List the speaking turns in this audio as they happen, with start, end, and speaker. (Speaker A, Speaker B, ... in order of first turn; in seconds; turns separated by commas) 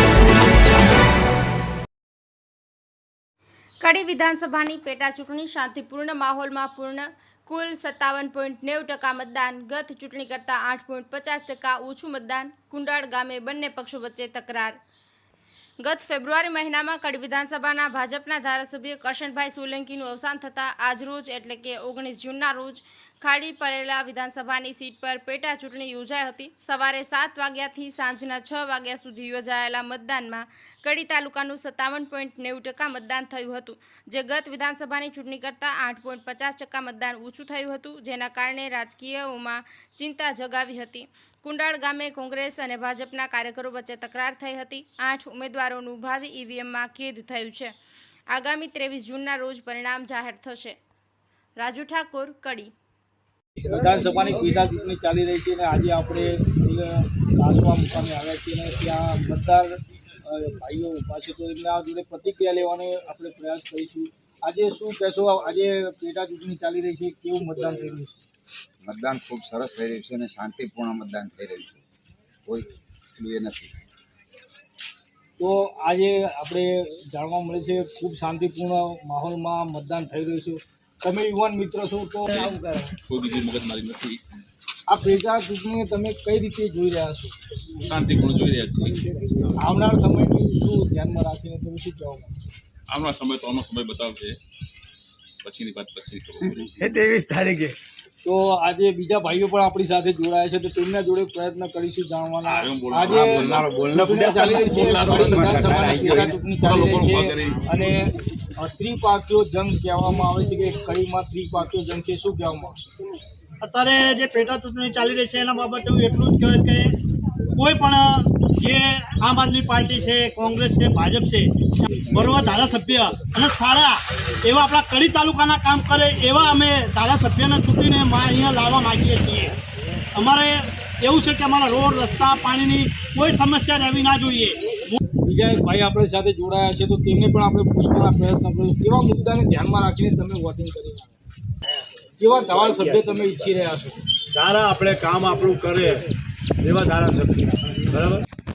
Speaker A: 3.8-14.8, Speaker A: 15.8-47.7, Speaker A: 48.3-50.8, Speaker A: 51.6-52.7, Speaker B: 53.6-68.2, Speaker C: 68.8-71.8, Speaker C: 72.5-73.7, Speaker B: 75.4-82.9, Speaker D: 83.1-84.2, Speaker B: 84.9-87.3, Speaker D: 87.9-89.0, Speaker B: 89.6-92.3, Speaker D: 92.9-94.4, Speaker D: 95.4-96.7, Speaker B: 97.1-97.7, Speaker B: 98.2-112.8, Speaker D: 102.5-107.9, Speaker C: 103.3-106.2, Speaker E: 113.6-116.9, Speaker E: 117.6-129.6, Speaker E: 130.2-134.9, Speaker B: 135.2-141.2, Speaker B: 142.2-144.0, Speaker F: 144.3-146.1, Speaker F: 146.6-148.2